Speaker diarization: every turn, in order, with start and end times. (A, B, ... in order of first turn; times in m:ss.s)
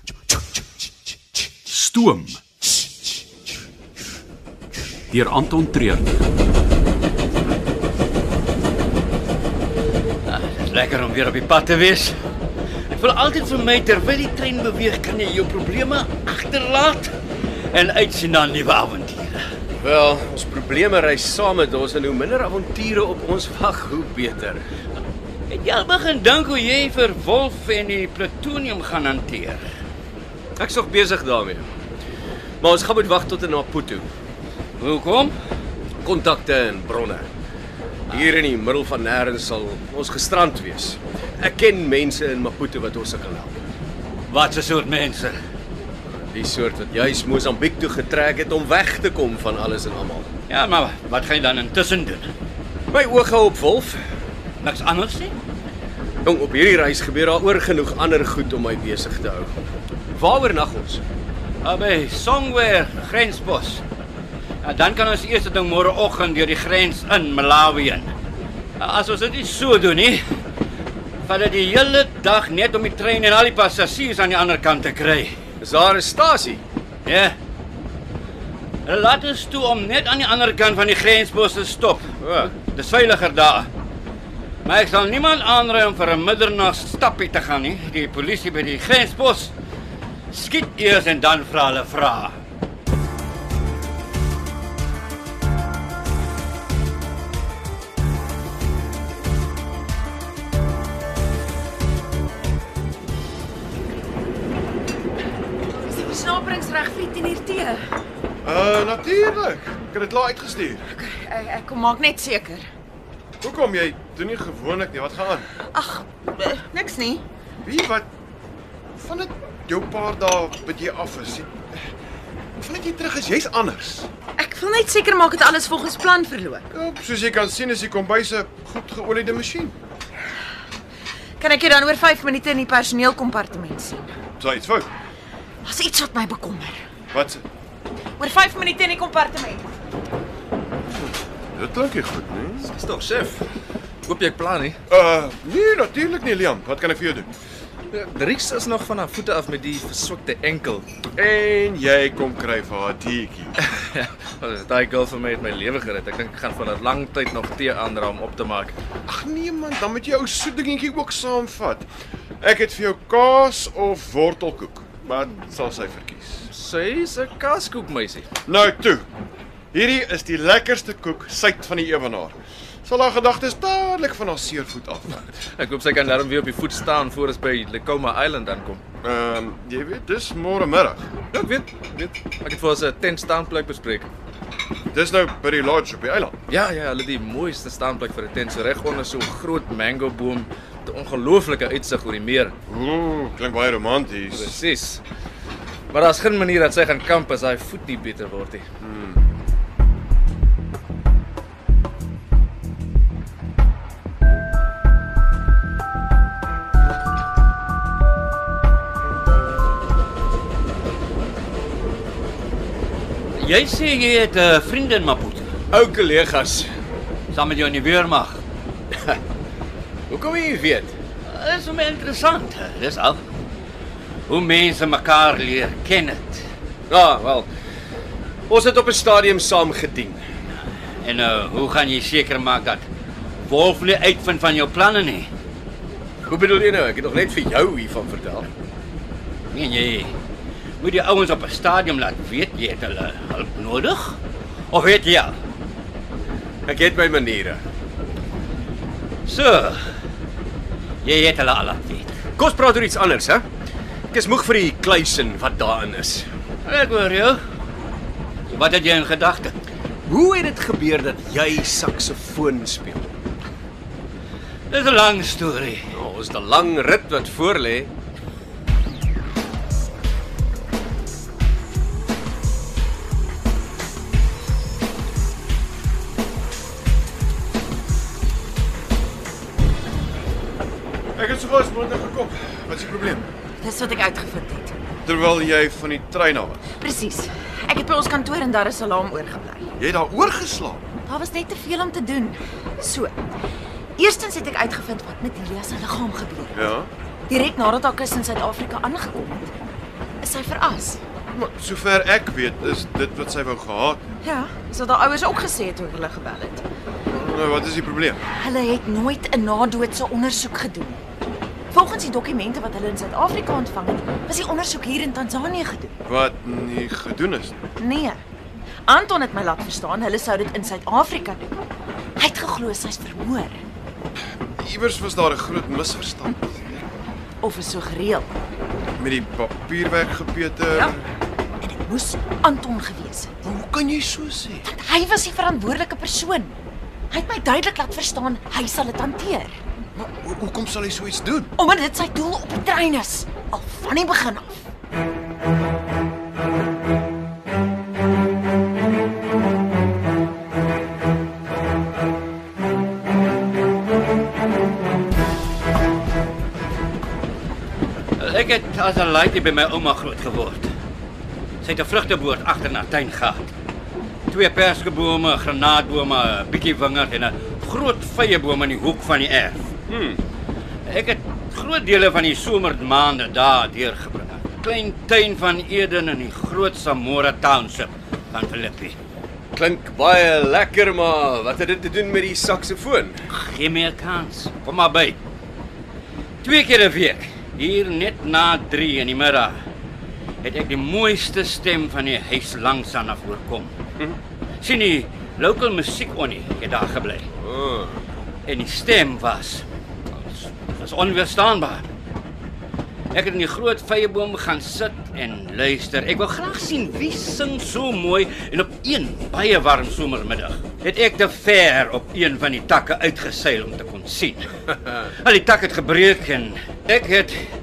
0:01.7-0:02.4 A
0:05.1-0:06.3 A
0:10.3-0:12.2 B
0:12.9-0:17.1 B
0:17.7-0:19.4 B
0:19.8-0:24.6 C
0:25.5-0:29.7 B
0:30.6-0:31.7 C
0:32.6-0:34.1 C
0:34.8-0:35.4 B
0:36.0-0:37.3 C
0:38.1-0:43.5 C
0:44.3-0:45.4 B
0:46.3-0:50.3 C
0:50.5-0:52.3 B
0:52.9-0:54.0 C
0:54.6-0:55.4 B
0:56.2-0:59.5 C
1:00.1-1:01.0 C
1:01.6-1:03.8 B
1:04.6-1:08.1 B
1:08.8-1:10.2 B
1:11.3-1:15.4 B
1:15.6-1:16.6 C
1:17.0-1:17.4 B
1:18.8-1:23.7 B
1:22.2-1:22.5 C
1:24.6-1:29.5 B
1:30.3-1:32.4 B
1:45.9-1:47.8 D
1:48.4-1:50.8 E
1:50.9-1:52.7 D
1:53.4-1:55.5 E
1:55.7-1:57.2 D
1:57.6-1:58.1 E
1:59.0-2:01.7 E
2:02.6-2:04.1 E
2:04.4-2:06.7 D
2:06.7-2:09.8 E
2:11.4-2:14.1 D
2:14.4-2:14.9 E
2:15.6-2:16.8 D
2:17.1-2:17.4 E
2:18.2-2:19.7 D
2:21.5-2:22.7 E
2:22.6-2:23.4 F
2:24.1-2:24.8 F
2:24.9-2:27.3 E
2:27.9-2:30.8 F
2:31.2-2:33.5 E
2:33.6-2:38.8 F
2:39.1-2:41.9 E
2:42.4-2:46.5 E
2:46.5-2:48.3 F
2:48.5-2:49.1 E
2:49.7-2:55.3 E
2:55.6-2:58.8 F
2:59.0-3:01.1 E
3:01.3-3:04.1 F
3:04.9-3:06.4 E
3:06.5-3:12.5 F
3:12.7-3:14.6 E
3:14.3-3:15.0 F
3:15.9-3:18.6 F
3:18.8-3:19.2 E
3:33.4-3:35.6 B
3:35.7-3:36.7 C
3:37.3-3:38.4 B
3:40.1-3:40.9 C
3:41.2-3:43.2 B
3:44.3-3:46.5 B
3:46.9-3:47.5 C
3:48.5-3:50.2 C
3:51.0-3:52.9 B
3:53.5-3:55.3 B
3:56.3-3:58.5 C
3:59.5-4:00.2 B
4:00.8-4:04.2 B
4:04.7-4:05.4 B
4:06.7-4:07.6 C
4:09.3-4:09.8 B
4:11.0-4:12.1 B
4:12.4-4:13.5 C
4:14.1-4:16.3 C
4:16.6-4:17.4 B
4:18.5-4:19.5 B
4:20.1-4:23.1 C
4:24.7-4:25.9 B
4:25.9-4:27.9 C
4:41.2-4:43.3 E
4:43.6-4:44.7 D
4:45.0-4:46.6 E
4:46.8-4:49.7 D
4:49.8-4:50.8 E
4:51.1-4:53.2 D
4:54.0-4:56.7 D
4:56.5-4:56.9 E
4:57.3-4:59.7 D
5:00.2-5:01.0 D
5:01.3-5:04.0 E
5:04.2-5:06.6 D
5:07.1-5:08.2 E
5:08.4-5:11.0 D
5:11.7-5:16.0 D
5:16.0-5:17.6 E
5:17.8-5:18.2 D
5:18.9-5:21.5 D
5:22.2-5:23.6 D
5:24.6-5:26.9 E
5:27.4-5:28.4 D
5:29.0-5:31.0 E
5:31.6-5:33.4 D
5:33.4-5:34.7 E
5:34.6-5:36.6 D
5:37.1-5:39.6 D
5:40.0-5:41.5 E
5:41.6-5:44.7 D
5:58.2-6:00.7 B
6:01.6-6:03.5 B
6:04.3-6:09.7 B
6:09.9-6:10.2 C
6:10.9-6:19.0 B
6:19.5-6:23.2 C
6:23.3-6:25.2 B
6:26.4-6:29.6 B
6:30.4-6:33.8 B
6:34.6-6:37.3 B
6:37.4-6:38.0 C
6:38.5-6:41.9 B
6:43.1-6:57.4 B